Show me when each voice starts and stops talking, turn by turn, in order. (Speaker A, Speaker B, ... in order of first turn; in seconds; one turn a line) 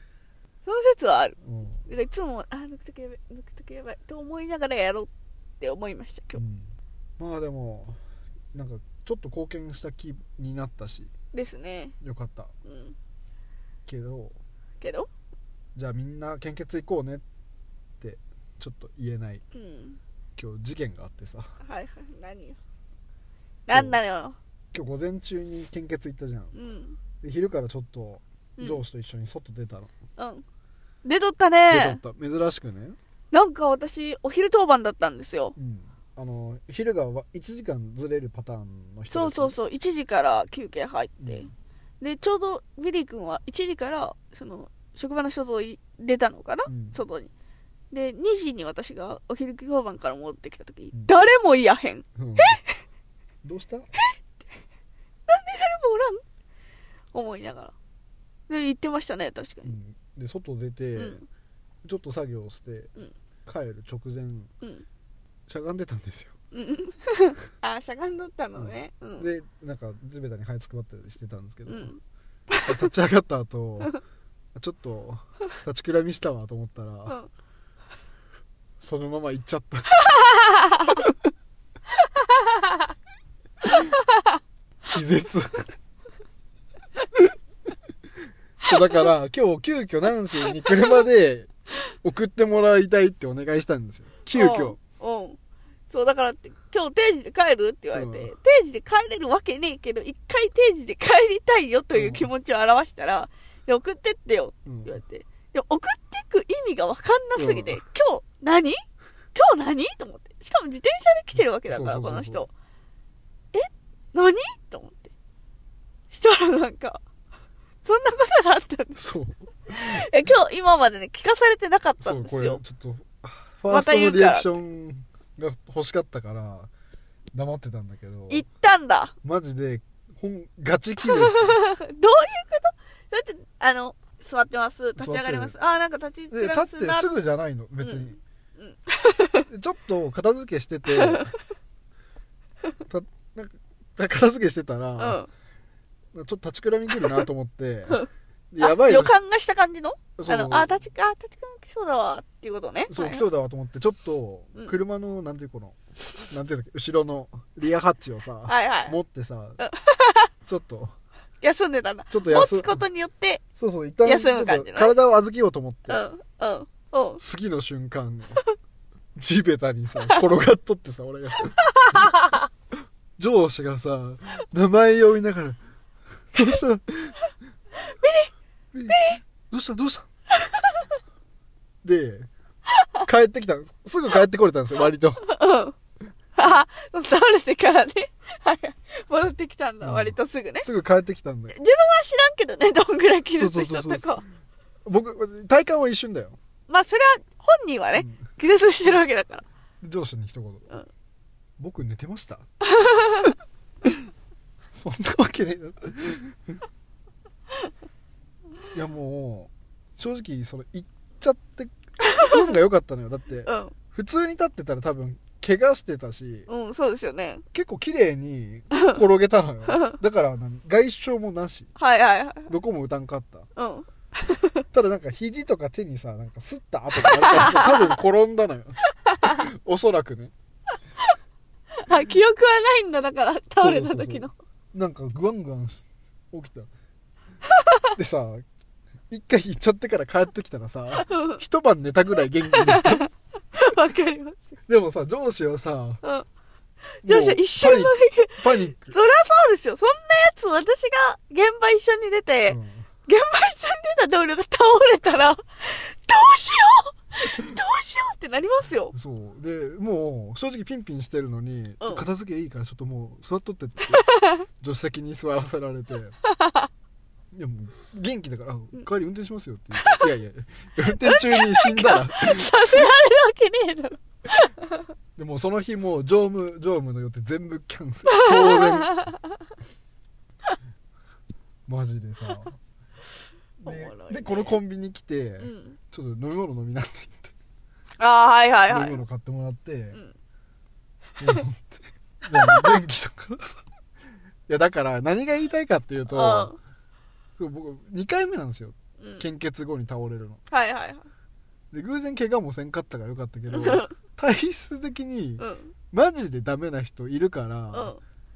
Speaker A: 0.6-6.4
Speaker B: 1.4-1.8
Speaker B: 6.3-8.0
Speaker B: 8.5-11.1
Speaker A: 11.3-11.9
Speaker B: 12.0-12.5
Speaker A: 12.6-12.9
Speaker B: 13.8-14.3
Speaker A: 14.8-15.1
Speaker B: 15.7-17.2
Speaker B: 18.0-19.4
Speaker A: 19.5-20.0
Speaker B: 20.4-21.5
Speaker A: 21.6-22.6
Speaker A: 23.7-24.4
Speaker B: 23.7-24.0
Speaker B: 24.7-26.5
Speaker A: 26.5-27.0
Speaker B: 27.2-29.9
Speaker A: 30.2-30.4
Speaker A: 31.0-32.0
Speaker B: 31.7-33.0
Speaker A: 33.3-35.5
Speaker B: 35.5-39.6
Speaker A: 39.1-47.3
Speaker B: 41.2-41.5
Speaker B: 46.7-47.0
Speaker A: 47.9-52.6
Speaker B: 52.1-52.6
Speaker B: 53.4-53.9
Speaker A: 55.3-56.2
Speaker A: 57.1-57.7
Speaker A: 58.5-59.8
Speaker B: 59.6-61.2
Speaker A: 61.0-61.2
Speaker B: 61.8-62.9
Speaker B: 63.5-64.5
Speaker B: 65.5-66.3
Speaker A: 66.5-69.3
Speaker B: 68.5-71.9
Speaker A: 71.7-72.0
Speaker B: 72.6-73.9
Speaker B: 74.5-77.2
Speaker B: 78.8-80.0
Speaker A: 80.0-81.0
Speaker B: 80.9-81.2
Speaker A: 82.1-82.8
Speaker A: 83.8-84.3
Speaker B: 84.8-85.7
Speaker B: 88.6-91.5
Speaker B: 92.0-94.8
Speaker A: 94.3-95.4
Speaker A: 95.9-108.8
Speaker B: 97.9-98.3
Speaker B: 101.9-102.3
Speaker B: 104.6-105.0
Speaker B: 107.3-107.8
Speaker A: 109.3-112.5
Speaker B: 111.3-112.5
Speaker A: 113.5-115.1
Speaker A: 116.1-117.0
Speaker A: 117.8-119.0
Speaker B: 118.9-120.1
Speaker A: 119.7-122.6
Speaker B: 122.0-126.7
Speaker A: 123.7-124.5
Speaker B: 127.3-128.4
Speaker A: 128.3-129.1
Speaker B: 129.2-131.6
Speaker A: 131.0-137.1
Speaker B: 135.0-135.5
Speaker B: 136.3-138.2
Speaker A: 137.8-139.4
Speaker B: 139.5-141.3
Speaker A: 140.9-141.4
Speaker B: 142.9-145.2
Speaker A: 145.0-145.3
Speaker B: 146.1-149.2
Speaker A: 148.6-153.2
Speaker B: 150.2-150.8
Speaker B: 152.9-159.6
Speaker A: 158.4-159.0
Speaker A: 159.6-160.3
Speaker B: 160.4-160.9
Speaker A: 161.4-163.4
Speaker B: 162.1-162.8
Speaker B: 163.6-166.0
Speaker A: 164.0-164.9
Speaker A: 165.9-167.2
Speaker B: 167.2-168.4
Speaker B: 169.1-172.2
Speaker A: 171.6-172.4
Speaker B: 173.2-175.6
Speaker B: 176.3-177.2
Speaker A: 177.8-178.3
Speaker B: 178.7-180.1
Speaker A: 178.9-179.2
Speaker A: 180.4-180.8
Speaker B: 181.8-182.3
Speaker B: 183.0-185.3
Speaker A: 185.2-185.7
Speaker A: 186.3-190.7
Speaker B: 189.8-191.6
Speaker A: 191.5-194.2
Speaker B: 193.3-194.1
Speaker B: 194.8-196.4
Speaker A: 196.7-199.4
Speaker B: 197.9-198.2
Speaker B: 199.8-200.7
Speaker B: 201.6-202.4
Speaker A: 202.6-203.3
Speaker B: 204.7-206.6
Speaker B: 208.7-216.5
Speaker A: 212.0-212.3
Speaker A: 213.4-213.7
Speaker A: 216.5-217.4
Speaker B: 217.5-221.7
Speaker A: 219.7-220.0
Speaker A: 221.8-222.5
Speaker B: 222.5-223.5
Speaker A: 223.6-224.6
Speaker B: 224.7-230.3
Speaker A: 227.0-227.9
Speaker A: 229.0-229.4
Speaker A: 231.8-234.3
Speaker B: 233.6-236.7
Speaker A: 237.5-237.8
Speaker B: 237.9-238.4
Speaker B: 239.1-243.1
Speaker A: 240.9-241.4
Speaker A: 242.5-244.6
Speaker B: 244.7-246.0
Speaker A: 247.0-258.9
Speaker B: 247.0-248.9
Speaker B: 252.5-252.9
Speaker B: 258.9-264.0
Speaker A: 261.8-262.0
Speaker A: 263.9-264.4
Speaker B: 264.6-266.1
Speaker A: 266.2-266.7
Speaker B: 267.3-272.9
Speaker A: 269.8-270.1
Speaker A: 271.0-274.8
Speaker B: 275.1-279.0
Speaker A: 278.1-279.2
Speaker B: 281.7-282.6
Speaker B: 283.6-287.3
Speaker A: 283.6-284.6
Speaker A: 285.4-285.8
Speaker A: 288.0-289.0
Speaker B: 288.7-290.0
Speaker B: 291.2-293.6
Speaker A: 292.4-292.7
Speaker B: 294.5-296.5
Speaker A: 296.1-296.6
Speaker B: 297.4-300.4
Speaker A: 299.0-299.3
Speaker A: 300.5-301.1
Speaker B: 301.7-307.9
Speaker A: 303.5-303.9
Speaker A: 305.4-305.7
Speaker A: 307.7-308.0